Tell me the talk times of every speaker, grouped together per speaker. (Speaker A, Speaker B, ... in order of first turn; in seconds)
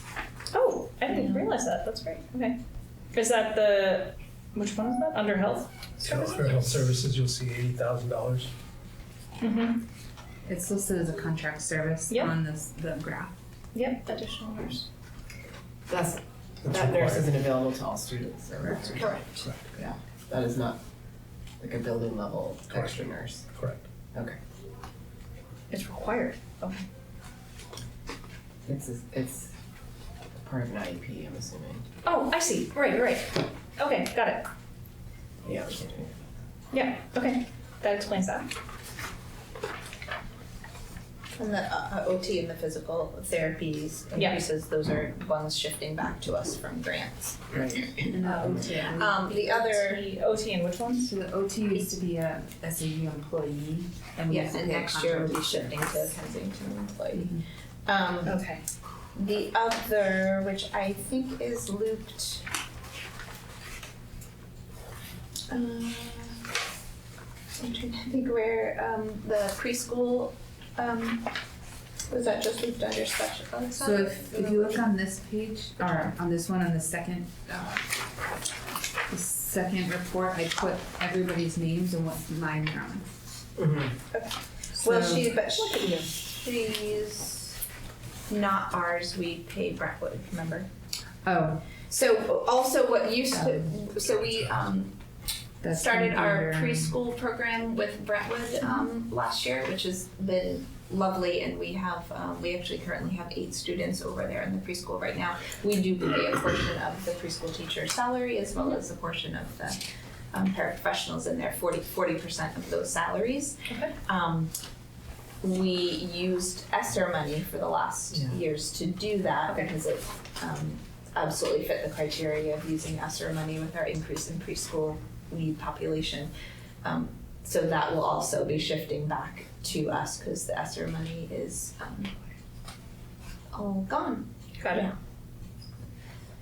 Speaker A: 0.5-2.6, 3.1-6.6, 9.4-9.8, 12.1-12.3, 13.7-14.8, 25.7-26.8, 32.0-34.5, 36.7-38.5, 44.2-44.4, 48.2-48.7, 49.9-51.1, 58.2-58.6, 85.5-86.1, 113.7-113.9, 119.5-119.7, 134.6-134.9
Speaker B: 1.1-1.5, 18.9-19.9, 41.4-50.1, 54.3-58.4, 59.1-62.5, 65.5-66.5, 67.6-71.3, 72.1-74.9, 84.1-87.6, 88.3-90.7, 91.8-95.0, 95.7-114.5, 115.4-126.3, 126.8-132.1, 133.5-135.0
Speaker C: 6.0-8.5, 16.6-17.3, 23.6-23.8
Speaker D: 10.5-13.3, 48.0-50.0, 51.0-56.1, 57.1-57.4, 73.8-77.8, 79.1-83.1, 84.8-85.3, 91.2-91.7, 93.3-93.7, 95.6-97.0
Speaker E: 15.9-20.8, 21.6-23.5, 28.7-29.5, 30.4-31.9, 35.4-36.2, 47.5-48.1, 83.6-83.9, 118.1-118.4